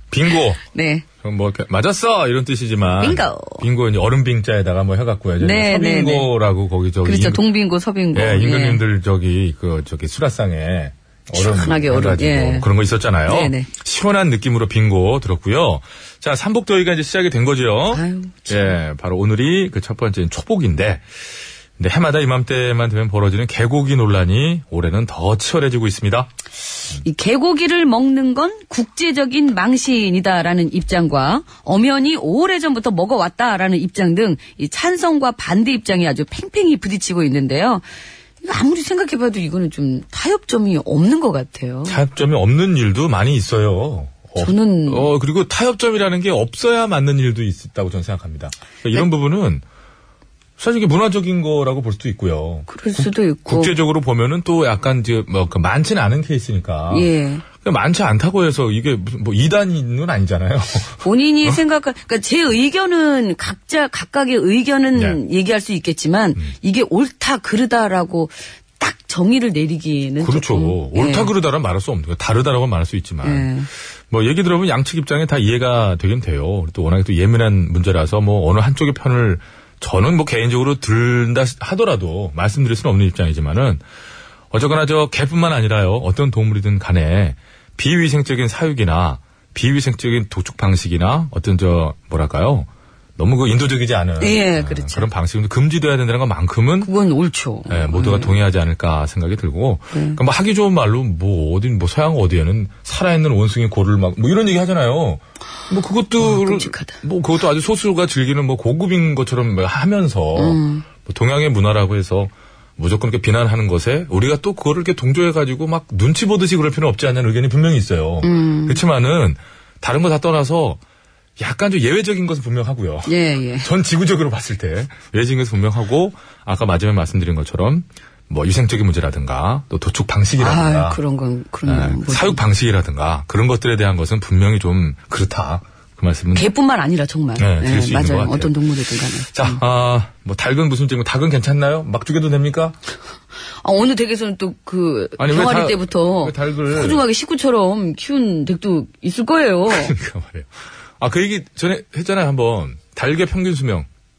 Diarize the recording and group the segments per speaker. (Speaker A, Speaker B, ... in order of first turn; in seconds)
Speaker A: 0.1-0.6, 1.2-7.4, 8.1-21.1, 21.8-26.3, 41.9-49.6, 50.6-57.1, 57.6-61.6, 70.2-73.5, 74.1-83.8, 84.5-96.9, 97.7-120.8, 121.4-131.0, 131.7-136.5, 137.4-138.6, 139.3-142.8, 145.2-147.0, 149.7-150.5, 151.0-153.9
Speaker B: 0.7-1.1, 3.0-3.6, 5.4-6.3, 7.0-8.8, 11.3-12.7, 13.3-13.7, 17.9-18.8, 27.0-37.8, 38.4-42.0, 44.4-45.1, 52.7-53.7, 56.9-57.4, 61.0-71.3, 73.2-73.7, 94.2-95.1, 96.8-98.4, 99.9-100.2, 106.2-107.0, 110.4-110.9, 118.2-118.8, 123.1-123.7, 130.4-132.4, 136.3-139.6, 143.6-149.9